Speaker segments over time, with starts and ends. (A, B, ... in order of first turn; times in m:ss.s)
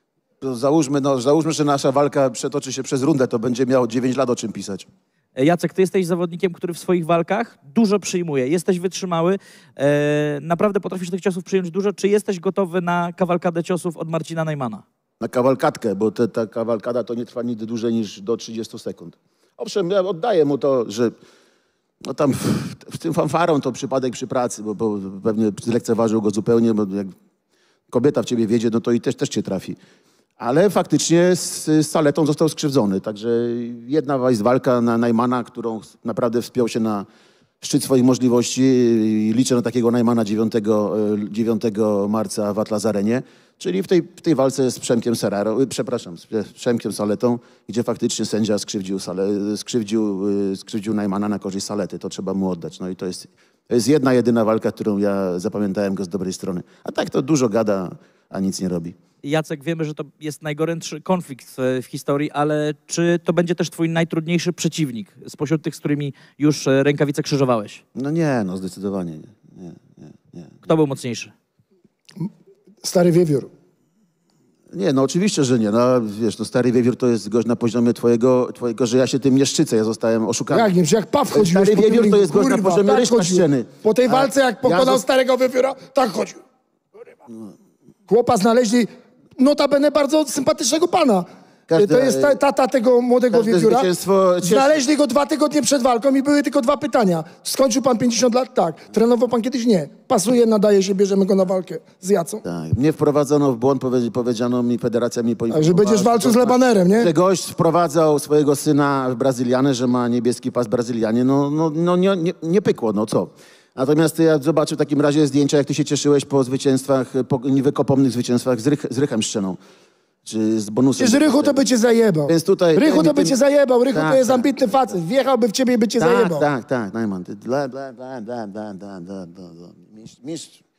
0:00.4-0:04.9 A
0:05.4-0:14.8 B
0:15.2-0:21.2 A
0:22.0-0:27.1 A
0:27.9-0:29.8 A
0:30.4-0:37.1 A
0:37.6-0:59.0 A
0:59.2-1:07.8 B
1:08.0-1:10.6 A
1:10.6-1:11.3 B
1:12.8-1:13.5 C
1:14.7-1:20.7 A
1:20.5-1:26.4 C
1:21.3-1:25.0 A
1:28.1-1:33.9 C
1:31.7-1:32.4 A
1:33.3-1:34.8 A
1:34.4-1:42.4 C
1:42.4-1:59.6 A
1:45.5-1:47.1 C
2:00.2-2:01.6 A
2:01.0-2:06.4 C
2:02.3-2:03.4 A
2:03.9-2:05.0 A
2:06.0-2:10.6 A